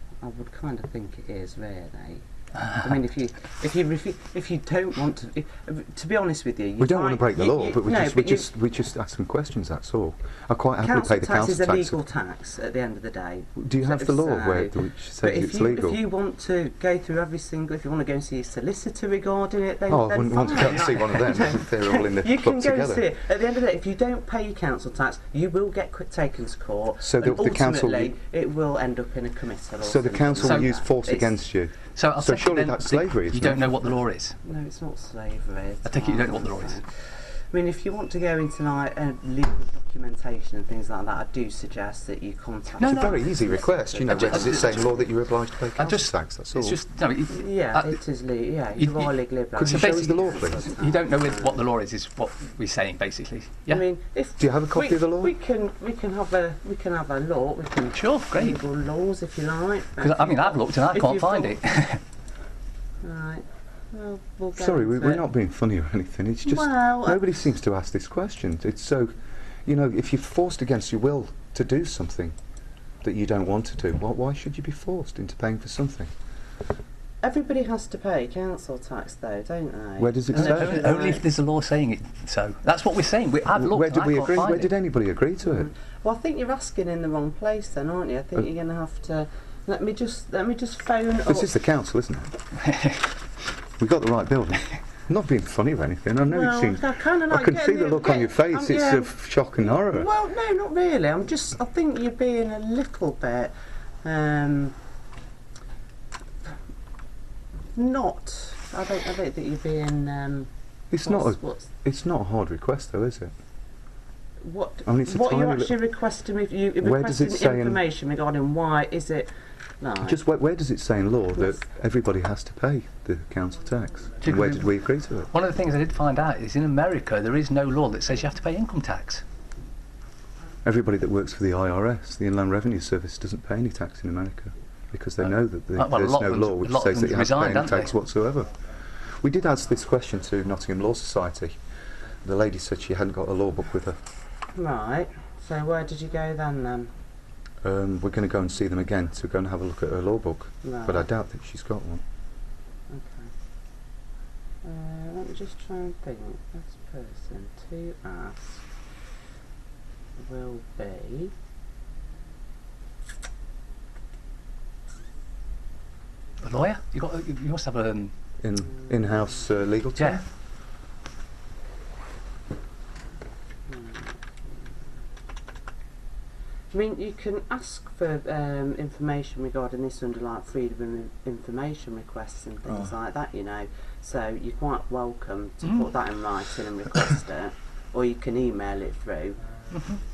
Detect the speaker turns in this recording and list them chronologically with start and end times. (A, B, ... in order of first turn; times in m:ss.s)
0:00.2-0:08.5 A
0:06.8-0:12.0 B
0:10.8-0:31.4 A
0:13.6-0:16.0 B
0:19.9-0:23.1 B
0:27.0-0:28.1 B
0:29.8-0:33.8 B
0:30.4-0:30.7 C
0:31.9-0:34.4 C
0:34.4-0:45.0 A
0:35.8-0:36.8 C
0:42.8-0:43.2 C
0:42.8-0:46.8 B
0:44.1-0:44.7 C
0:45.8-0:48.0 C
0:47.3-0:51.6 A
0:48.8-0:49.1 C
0:49.5-0:50.6 B
0:49.6-0:53.8 C
0:53.7-1:01.6 A
0:54.4-0:55.3 B
0:57.9-0:58.6 C
1:00.0-1:02.0 C
1:03.0-1:05.2 A
1:04.5-1:09.1 B
1:06.4-1:07.2 A
1:09.6-1:12.3 B
1:13.0-1:16.1 B
1:17.2-1:21.2 A
1:20.0-1:21.0 B
1:20.3-1:24.7 C
1:23.5-1:25.7 B
1:25.4-1:31.5 A
1:31.3-1:32.3 B
1:33.8-1:40.1 B
1:36.3-1:43.5 A
1:44.0-1:44.7 A
1:47.7-1:50.5 A
1:50.9-1:53.3 B
1:51.0-1:51.7 A
1:54.4-2:00.2 A
1:54.8-1:55.8 B
1:56.8-1:57.8 B
2:00.0-2:05.3 B
2:04.2-2:04.7 C
2:05.3-2:09.2 C
2:10.6-2:18.5 B
2:15.2-2:18.0 C
2:19.2-2:21.6 B
2:22.2-2:24.0 B
2:24.5-2:26.9 A
2:27.6-2:32.0 B
2:30.6-2:31.1 A
2:32.9-2:33.3 A
2:34.6-2:38.7 A
2:40.2-2:41.3 A
2:46.4-2:48.1 C
2:48.4-2:50.2 B
2:50.0-2:50.2 C
2:53.7-2:54.2 A
2:56.7-3:09.4 A
3:09.7-3:10.0 C